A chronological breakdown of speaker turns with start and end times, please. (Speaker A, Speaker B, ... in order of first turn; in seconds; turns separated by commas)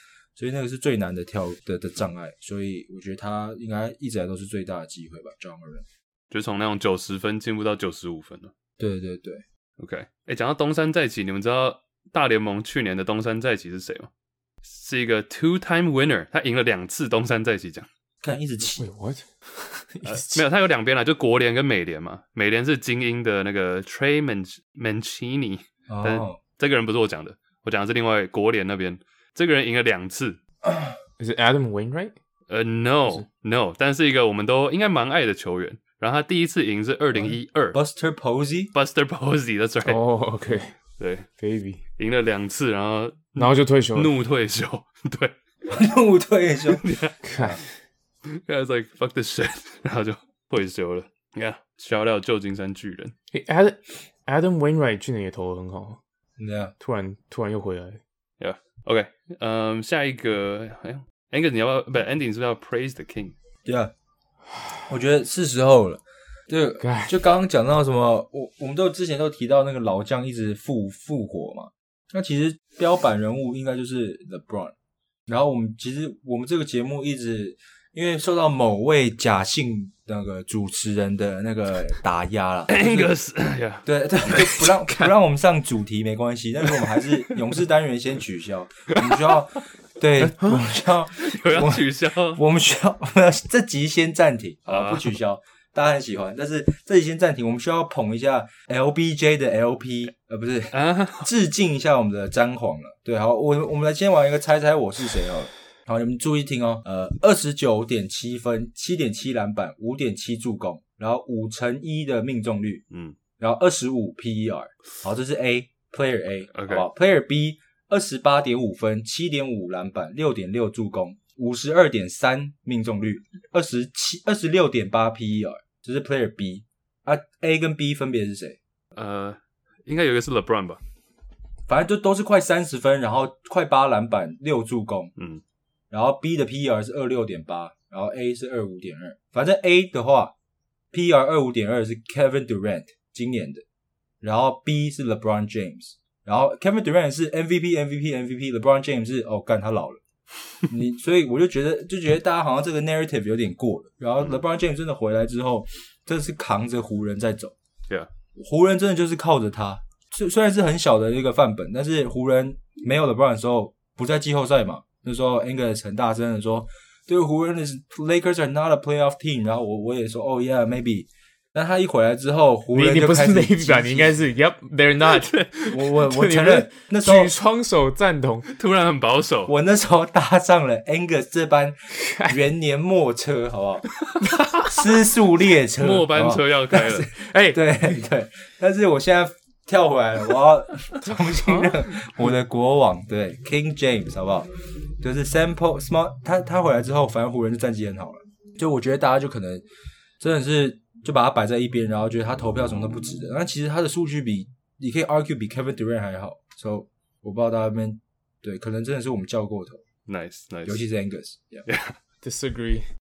Speaker A: 0.4-5.9, Speaker B: 6.3-8.5, Speaker A: 8.8-9.4, Speaker B: 9.8-14.1, Speaker B: 14.6-17.9, Speaker A: 18.2-18.9, Speaker C: 18.8-20.4, Speaker B: 20.0-30.4, Speaker A: 25.9-26.4, Speaker A: 30.6-30.9, Speaker C: 31.2-32.1, Speaker B: 32.5-37.8, Speaker A: 37.1-38.7, Speaker B: 38.7-40.0, Speaker C: 39.8-40.7, Speaker B: 41.0-41.3, Speaker C: 41.4-41.8, Speaker B: 42.0-45.3, Speaker C: 43.4-44.1, Speaker A: 45.6-46.8, Speaker B: 46.7-47.5, Speaker C: 47.2-47.6, Speaker B: 48.2-53.1, Speaker C: 53.3-56.0, Speaker A: 56.4-56.7, Speaker C: 56.8-58.0, Speaker B: 58.4-63.3, Speaker A: 63.6-63.9, Speaker A: 64.9-74.7, Speaker C: 66.8-67.2, Speaker A: 75.3-83.1, Speaker B: 82.7-83.9, Speaker A: 83.8-112.8, Speaker C: 84.4-85.1, Speaker C: 90.2-90.6, Speaker B: 91.2-92.4, Speaker B: 94.7-95.1, Speaker B: 100.7-101.3, Speaker B: 112.9-113.2, Speaker A: 113.4-128.6, Speaker B: 116.5-116.9, Speaker B: 128.9-130.8, Speaker A: 131.7-135.1, Speaker B: 135.2-135.4, Speaker A: 135.9-140.3, Speaker A: 140.9-143.6, Speaker A: 144.2-150.0, Speaker A: 150.7-157.6, Speaker A: 158.3-174.2, Speaker C: 172.7-178.5, Speaker A: 175.7-177.3, Speaker B: 178.5-179.5, Speaker A: 179.5-183.9, Speaker C: 181.9-182.4, Speaker C: 184.2-184.7, Speaker A: 184.6-199.6, Speaker B: 185.8-187.1, Speaker C: 187.1-187.6, Speaker C: 191.0-192.1, Speaker A: 200.2-209.8, Speaker B: 210.1-210.8, Speaker A: 210.7-211.7, Speaker B: 211.7-211.9, Speaker C: 212.2-212.9